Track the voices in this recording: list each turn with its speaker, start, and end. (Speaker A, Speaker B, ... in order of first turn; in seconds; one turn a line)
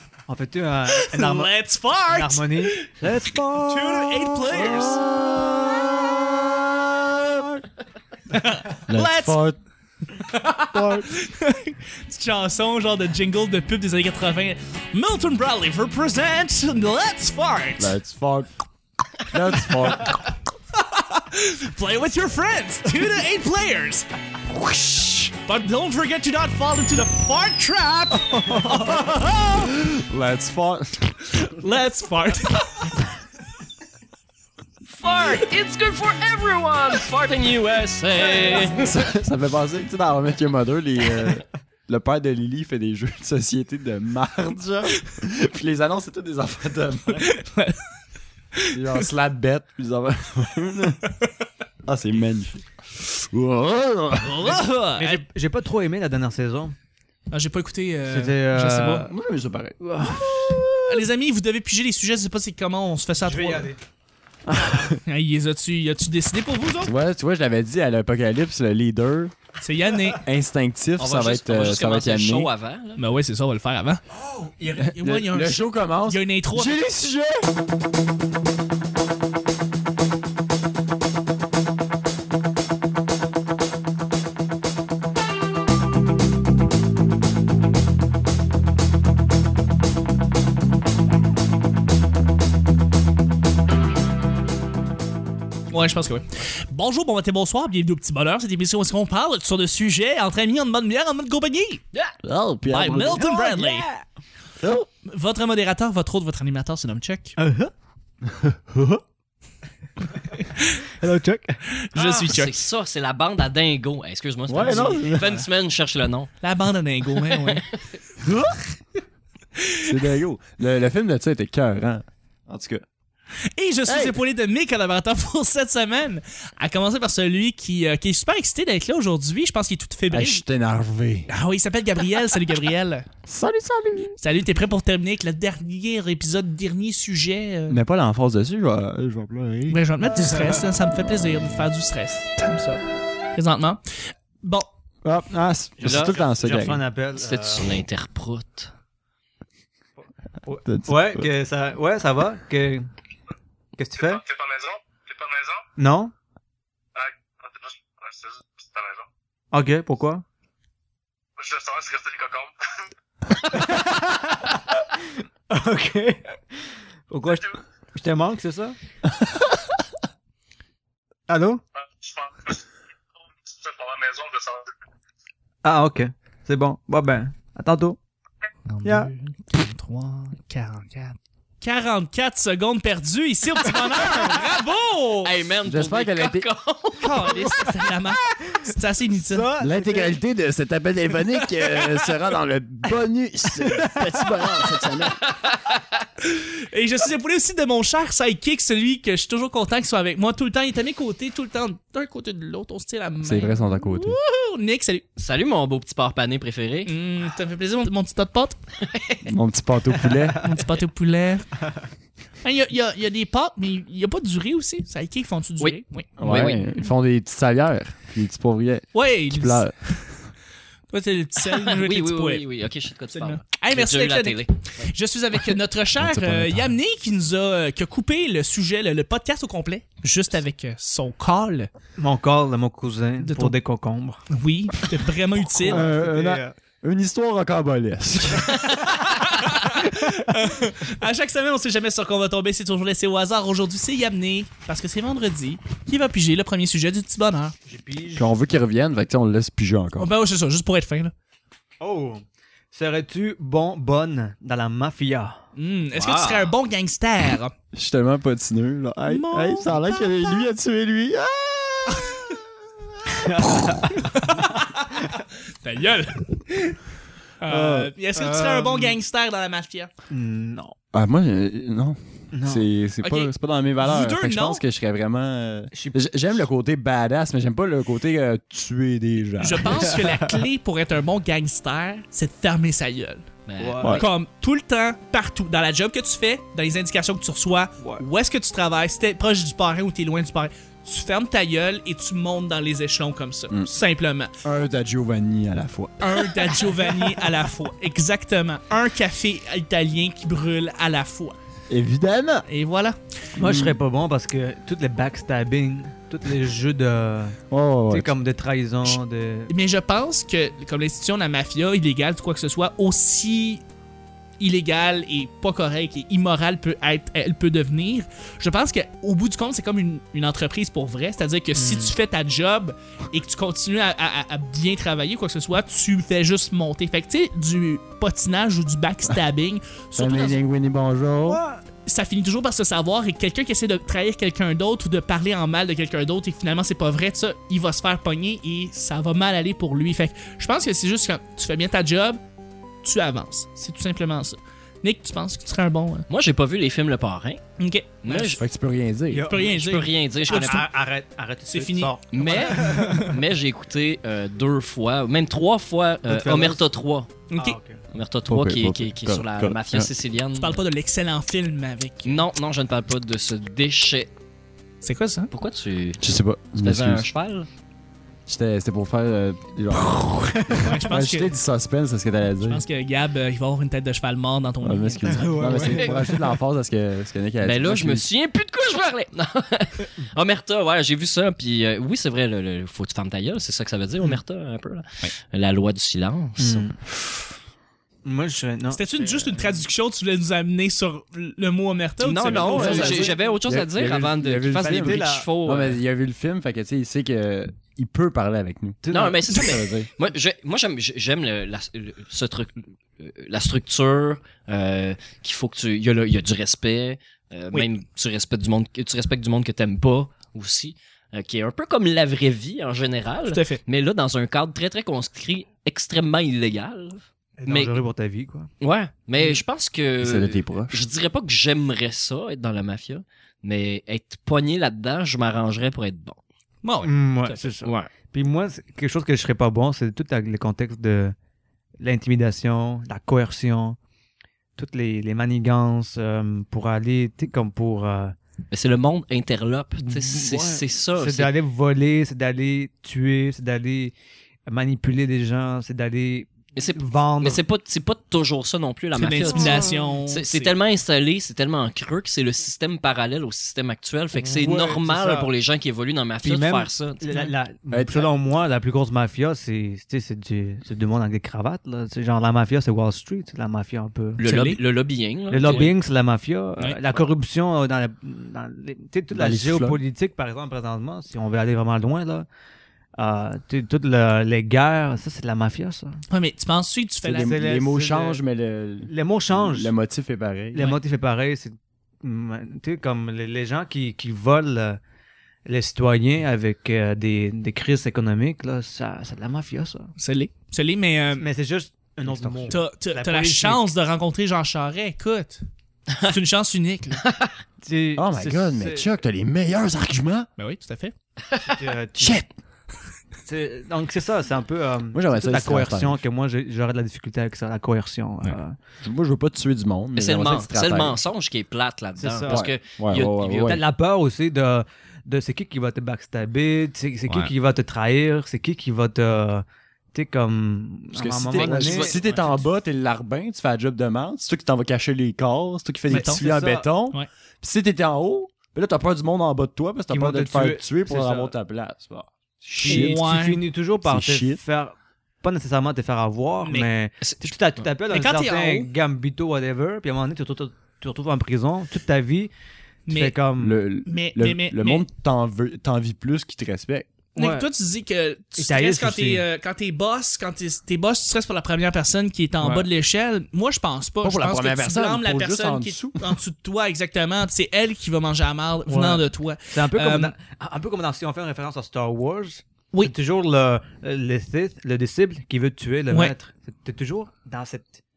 Speaker A: 0.3-1.5
Speaker B: 1.0-2.9
Speaker A: 2.1-4.7
Speaker B: 3.7-5.1
Speaker C: 4.5-7.6
Speaker B: 8.3-9.4
Speaker C: 8.9-9.6
Speaker B: 10.3-17.9
Speaker C: 10.7-11.0
Speaker C: 17.8-18.5
Speaker C: 19.3-20.2
Speaker B: 20.8-24.1
Speaker C: 24.5-25.4
Speaker B: 25.4-29.5
Speaker C: 29.1-31.4
Speaker B: 31.4-33.0
Speaker D: 34.9-39.0
Speaker C: 38.8-47.3
Speaker B: 47.2-47.8
Speaker C: 48.7-51.0
Speaker C: 51.8-54.6
Speaker B: 54.2-55.2
Speaker A: 55.0-56.8
Speaker B: 57.3-58.4
Speaker A: 58.1-59.1
Speaker C: 58.5-61.1
Speaker B: 60.9-63.7
Speaker A: 63.2-63.8
Speaker C: 64.5-65.0
Speaker B: 65.0-66.9
Speaker C: 66.8-69.3
Speaker B: 69.6-70.2
Speaker C: 70.2-72.5
Speaker D: 71.0-73.0
Speaker B: 73.0-74.0
Speaker C: 74.5-77.5
Speaker B: 75.0-76.8
Speaker B: 95.7-101.8
Speaker C: 102.2-103.3
Speaker B: 102.7-103.9
Speaker A: 103.1-104.0
Speaker C: 104.6-104.9
Speaker B: 105.0-107.4
Speaker A: 107.4-107.7
Speaker B: 110.4-110.7
Speaker A: 111.0-111.7
Speaker B: 111.8-112.6
Speaker D: 112.0-116.3
Speaker C: 114.5-115.4
Speaker B: 114.7-115.5
Speaker B: 116.4-117.7
Speaker D: 117.1-117.6
Speaker C: 118.2-118.6
Speaker B: 119.6-119.9
Speaker C: 119.8-122.8
Speaker B: 123.5-130.4
Speaker C: 123.9-124.2
Speaker C: 130.1-131.3
Speaker B: 131.3-133.1
Speaker C: 133.3-134.2
Speaker B: 134.2-137.8
Speaker C: 137.7-139.8
Speaker B: 139.7-142.8
Speaker C: 141.0-141.5
Speaker B: 143.3-144.7
Speaker C: 145.0-146.8
Speaker D: 145.8-146.2
Speaker A: 145.8-147.8
Speaker D: 147.2-148.7
Speaker A: 150.0-152.9
Speaker C: 150.7-151.3
Speaker A: 153.8-154.3
Speaker E: 154.4-155.6
Speaker A: 155.8-156.1
Speaker E: 157.4-159.1
Speaker A: 159.5-160.2
Speaker E: 161.4-162.5
Speaker A: 163.4-168.8
Speaker A: 171.3-171.6
Speaker E: 173.6-174.7
Speaker A: 175.6-178.0
Speaker B: 178.7-185.3
Speaker A: 178.8-179.1
Speaker D: 185.2-187.7
Speaker C: 185.7-186.5
Speaker B: 187.0-189.5
Speaker A: 188.4-190.2
Speaker C: 189.6-195.2
Speaker B: 193.7-194.0
Speaker D: 195.2-195.9
Speaker B: 196.2-205.1
Speaker C: 203.2-204.2
Speaker D: 205.2-206.9
Speaker B: 206.9-208.6
Speaker D: 208.8-209.3
Speaker C: 209.2-210.4
Speaker B: 210.4-211.7
Speaker B: 212.4-216.1
Speaker D: 215.6-216.6
Speaker C: 216.2-219.7
Speaker B: 218.9-219.7
Speaker B: 220.9-222.4
Speaker D: 221.4-225.4
Speaker B: 223.1-231.7
Speaker C: 226.0-226.8
Speaker A: 232.0-234.2
Speaker B: 233.2-233.6
Speaker B: 234.3-235.9
Speaker A: 235.6-236.6
Speaker C: 235.6-238.7
Speaker B: 238.5-247.6
Speaker A: 247.7-248.3
Speaker C: 248.2-250.1
Speaker B: 250.0-251.1
Speaker A: 251.8-255.5
Speaker B: 255.6-257.5
Speaker D: 255.9-256.5
Speaker C: 257.7-262.4
Speaker B: 259.1-260.3
Speaker A: 263.1-263.9
Speaker B: 264.0-266.8
Speaker B: 267.4-269.9
Speaker A: 267.5-268.9
Speaker A: 270.1-270.8
Speaker C: 270.9-280.0
Speaker A: 272.3-272.7
Speaker B: 273.0-273.3
Speaker B: 273.8-274.6
Speaker A: 275.7-276.0
Speaker B: 279.4-283.3
Speaker A: 280.1-280.4
Speaker D: 283.5-284.1
Speaker A: 283.6-284.0
Speaker C: 283.8-284.1
Speaker B: 283.9-294.3
Speaker A: 287.8-288.1
Speaker C: 294.4-296.7
Speaker B: 296.0-301.4
Speaker C: 301.7-302.5
Speaker B: 302.5-303.0
Speaker C: 303.4-303.8
Speaker A: 303.4-309.5
Speaker C: 307.5-308.1
Speaker B: 309.5-313.6
Speaker B: 314.4-330.4
Speaker A: 321.6-321.9
Speaker C: 330.0-331.4
Speaker A: 331.2-331.6
Speaker B: 331.9-342.2
Speaker B: 342.8-346.1
Speaker D: 346.1-347.4
Speaker B: 347.6-348.4
Speaker D: 348.0-348.4
Speaker C: 348.4-349.3
Speaker A: 349.1-349.5
Speaker B: 349.3-350.7
Speaker D: 349.4-350.7
Speaker A: 350.3-353.2
Speaker B: 351.5-353.2
Speaker D: 352.1-357.1
Speaker A: 356.1-356.6
Speaker B: 357.3-357.6
Speaker A: 357.4-357.8
Speaker D: 357.9-360.6
Speaker C: 358.3-359.9
Speaker B: 360.4-362.2
Speaker D: 362.0-364.1
Speaker B: 364.8-365.3
Speaker D: 365.3-366.0
Speaker C: 366.0-367.1
Speaker D: 366.6-367.5
Speaker C: 368.3-372.6
Speaker A: 369.9-370.7
Speaker B: 370.6-371.3
Speaker B: 372.4-375.9
Speaker C: 374.6-378.1
Speaker A: 375.0-376.3
Speaker D: 377.4-386.7
Speaker A: 386.4-386.8
Speaker A: 388.1-389.6
Speaker B: 388.7-393.1
Speaker D: 392.0-395.8
Speaker A: 392.3-393.3
Speaker C: 392.3-399.9
Speaker A: 394.6-395.3
Speaker A: 398.8-399.4
Speaker D: 398.9-417.8
Speaker B: 413.3-413.6
Speaker A: 417.4-418.5
Speaker D: 418.6-426.2
Speaker C: 420.0-420.9
Speaker B: 426.6-426.9
Speaker A: 426.8-431.1
Speaker D: 427.2-427.9
Speaker A: 431.8-433.8
Speaker A: 434.6-438.2
Speaker D: 438.5-441.3
Speaker A: 439.8-443.9
Speaker A: 444.5-447.4
Speaker D: 446.6-457.0
Speaker B: 448.9-450.5
Speaker A: 449.3-449.8
Speaker A: 454.2-455.3
Speaker A: 456.2-464.2
Speaker C: 457.7-458.1
Speaker D: 464.2-465.7
Speaker B: 464.2-464.6
Speaker A: 465.3-472.3
Speaker C: 469.1-469.8
Speaker A: 473.0-476.0
Speaker B: 476.1-477.4
Speaker C: 477.1-480.7
Speaker A: 477.2-478.2
Speaker A: 478.9-479.7
Speaker A: 480.5-484.8
Speaker A: 485.5-489.9
Speaker B: 490.0-491.3
Speaker A: 491.2-493.7
Speaker C: 492.1-492.6
Speaker B: 492.5-495.4
Speaker B: 496.0-497.1
Speaker D: 497.0-497.4
Speaker A: 497.6-498.9
Speaker C: 498.0-500.3
Speaker B: 500.4-500.9
Speaker A: 501.4-502.2
Speaker C: 502.0-502.3
Speaker A: 503.2-508.6
Speaker C: 504.9-506.0
Speaker C: 508.8-511.0
Speaker D: 510.0-513.6
Speaker A: 512.0-512.4
Speaker C: 512.3-513.6
Speaker A: 513.5-522.0
Speaker C: 520.9-533.0
Speaker D: 521.3-522.4
Speaker B: 525.9-526.2
Speaker A: 525.9-526.7
Speaker A: 529.9-531.3
Speaker B: 532.6-533.5
Speaker A: 532.6-542.3
Speaker C: 533.8-534.4
Speaker D: 537.0-537.3
Speaker B: 537.9-538.7
Speaker B: 542.9-543.1
Speaker A: 542.9-543.6
Speaker C: 543.4-546.9
Speaker B: 543.9-544.8
Speaker A: 547.2-547.5
Speaker B: 547.2-560.1
Speaker A: 548.4-549.2
Speaker C: 552.4-552.7
Speaker C: 554.0-556.1
Speaker A: 558.7-567.8